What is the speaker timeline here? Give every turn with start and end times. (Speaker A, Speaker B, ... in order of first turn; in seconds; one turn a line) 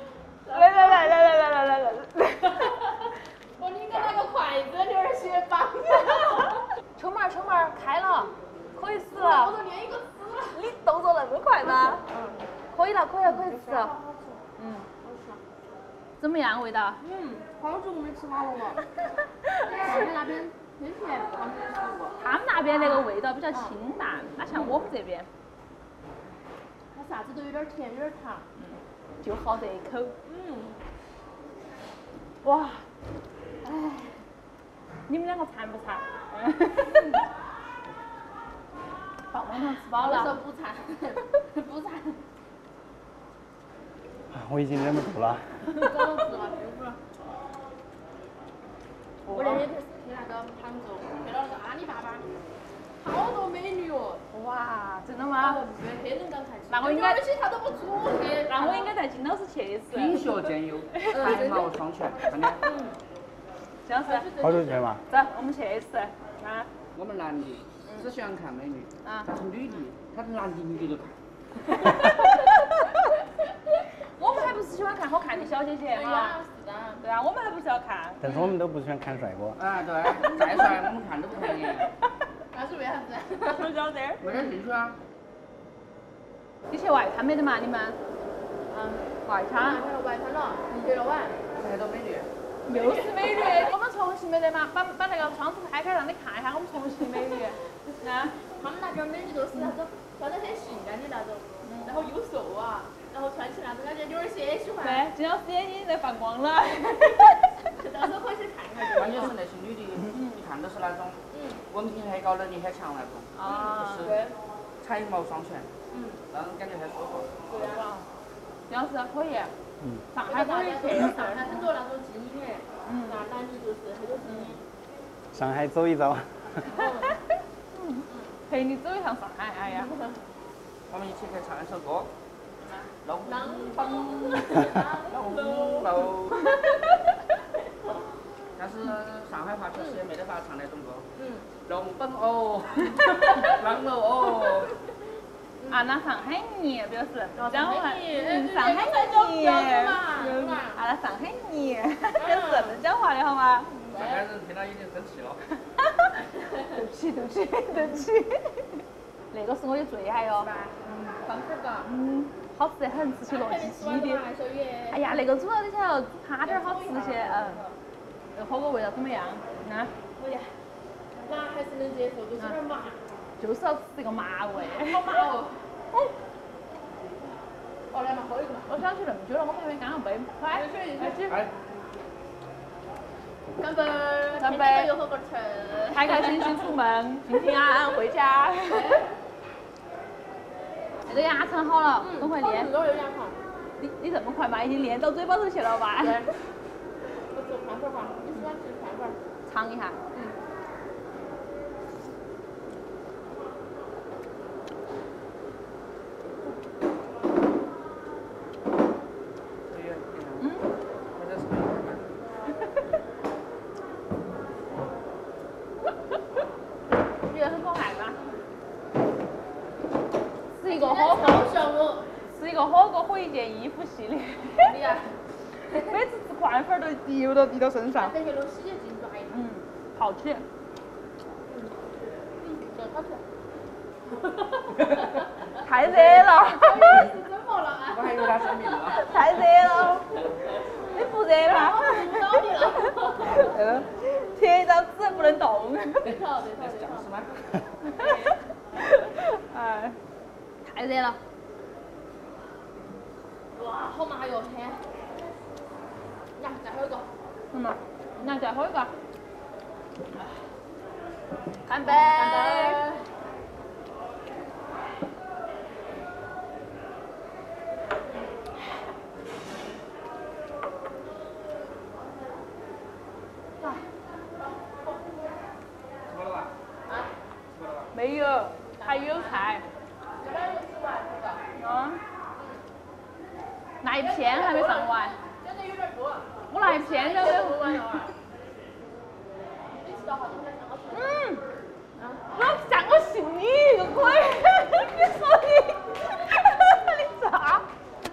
Speaker A: 0.4-1.4
Speaker B: 0.5-2.8
Speaker A: 2.7-6.7
Speaker B: 6.9-9.5
Speaker A: 9.1-10.6
Speaker B: 10.5-12.0
Speaker A: 11.6-12.5
Speaker B: 12.7-13.9
Speaker A: 13.2-14.4
Speaker B: 14.6-14.9
Speaker A: 15.0-15.4
Speaker B: 16.2-17.0
Speaker A: 17.0-17.6
Speaker C: 17.6-18.8
Speaker A: 19.6-23.8
Speaker B: 22.2-25.3
Speaker A: 26.9-28.4
Speaker B: 28.6-30.1
Speaker A: 30.2-30.8
Speaker B: 32.4-32.9
Speaker A: 33.6-34.1
Speaker B: 35.1-37.2
Speaker B: 39.3-40.4
Speaker A: 40.0-42.2
Speaker D: 44.3-45.7
Speaker A: 45.7-47.0
Speaker A: 49.2-52.3
Speaker B: 49.3-49.7
Speaker A: 53.0-54.2
Speaker B: 54.3-55.6
Speaker A: 55.4-58.9
Speaker B: 56.7-57.2
Speaker B: 58.5-60.2
Speaker C: 59.9-62.6
Speaker B: 60.9-61.2
Speaker A: 61.1-61.8
Speaker A: 62.6-63.0
Speaker B: 63.8-64.2
Speaker A: 64.0-65.0
Speaker D: 64.4-65.0
Speaker B: 65.1-66.7
Speaker C: 66.9-72.1
Speaker B: 69.0-69.3
Speaker B: 74.2-76.3
Speaker A: 75.9-77.0
Speaker B: 77.0-78.2
Speaker D: 78.2-79.6
Speaker C: 79.6-81.9
Speaker A: 80.2-80.6
Speaker A: 82.5-83.7
Speaker B: 83.5-84.2
Speaker C: 84.2-85.0
Speaker B: 86.7-88.0
Speaker A: 88.7-91.4
Speaker B: 89.2-89.8
Speaker C: 91.6-92.3
Speaker B: 92.6-98.3
Speaker A: 92.7-93.5
Speaker A: 98.3-105.1
Speaker B: 101.6-102.0
Speaker B: 104.8-107.7
Speaker A: 107.8-109.3
Speaker C: 108.9-114.2
Speaker B: 110.1-110.4
Speaker A: 111.3-111.6
Speaker B: 113.3-114.1
Speaker A: 113.4-114.3
Speaker C: 114.8-115.7
Speaker A: 115.9-116.2
Speaker C: 116.3-117.5
Speaker A: 117.5-117.9
Speaker B: 117.6-118.1
Speaker B: 118.7-119.5
Speaker B: 120.1-121.6
Speaker A: 120.2-124.6
Speaker B: 122.8-123.2
Speaker B: 124.2-124.5
Speaker D: 125.3-126.7
Speaker A: 126.6-127.2
Speaker B: 127.7-129.9
Speaker A: 129.8-130.2
Speaker C: 130.9-132.1
Speaker B: 132.6-132.9
Speaker C: 133.0-133.8
Speaker A: 133.2-136.1
Speaker B: 133.8-134.4
Speaker C: 135.0-136.5
Speaker C: 138.6-141.0
Speaker A: 141.2-141.5
Speaker C: 141.6-144.8
Speaker A: 143.2-143.5
Speaker A: 145.6-145.8
Speaker B: 145.7-153.8
Speaker A: 147.3-150.8
Speaker A: 152.2-152.8
Speaker A: 153.9-154.3
Speaker C: 153.9-155.4
Speaker B: 155.8-160.5
Speaker A: 156.5-156.8
Speaker A: 160.4-161.9
Speaker B: 161.8-164.2
Speaker A: 163.3-165.3
Speaker B: 164.9-167.6
Speaker A: 166.4-167.8
Speaker B: 168.3-169.9
Speaker A: 170.2-170.5
Speaker A: 171.2-173.0
Speaker B: 173.4-175.2
Speaker A: 174.5-175.6
Speaker A: 177.9-178.8
Speaker B: 178.7-181.4
Speaker A: 180.5-181.3
Speaker C: 181.3-181.5
Speaker A: 183.6-186.7
Speaker B: 184.3-184.9
Speaker B: 185.9-189.0
Speaker A: 188.7-189.1
Speaker B: 191.1-192.7
Speaker A: 192.0-193.4
Speaker B: 193.8-196.3
Speaker A: 196.0-196.4
Speaker A: 197.1-199.2
Speaker B: 199.4-200.0
Speaker C: 209.7-210.5
Speaker B: 210.4-210.7
Speaker C: 211.1-212.1
Speaker B: 217.2-218.2
Speaker B: 220.6-221.5
Speaker A: 220.6-222.1
Speaker B: 222.3-224.8
Speaker A: 224.6-225.1
Speaker B: 225.7-228.2
Speaker A: 227.9-229.4
Speaker B: 229.3-230.4
Speaker A: 231.5-233.2
Speaker A: 234.1-235.3
Speaker B: 235.6-237.0
Speaker A: 235.8-239.0
Speaker C: 237.9-239.1
Speaker B: 238.9-240.1
Speaker B: 240.8-242.4
Speaker A: 241.4-243.5
Speaker B: 243.2-246.2
Speaker A: 246.0-247.1
Speaker C: 246.6-247.6
Speaker B: 247.8-248.3
Speaker A: 248.0-248.3
Speaker B: 248.8-250.0
Speaker B: 250.6-251.2
Speaker A: 253.5-254.8
Speaker A: 256.4-257.1
Speaker B: 257.5-258.9
Speaker B: 261.6-262.8
Speaker A: 261.8-263.1
Speaker A: 274.4-275.2
Speaker C: 276.1-276.5
Speaker A: 276.9-277.1
Speaker C: 277.5-277.9
Speaker B: 277.9-279.6
Speaker A: 278.7-279.6
Speaker A: 280.2-281.4
Speaker B: 281.6-282.0
Speaker A: 282.4-282.6
Speaker B: 283.8-285.2
Speaker A: 284.0-288.1
Speaker B: 286.5-288.1
Speaker A: 289.8-291.4
Speaker B: 290.9-291.4
Speaker A: 291.9-292.3
Speaker B: 292.3-297.7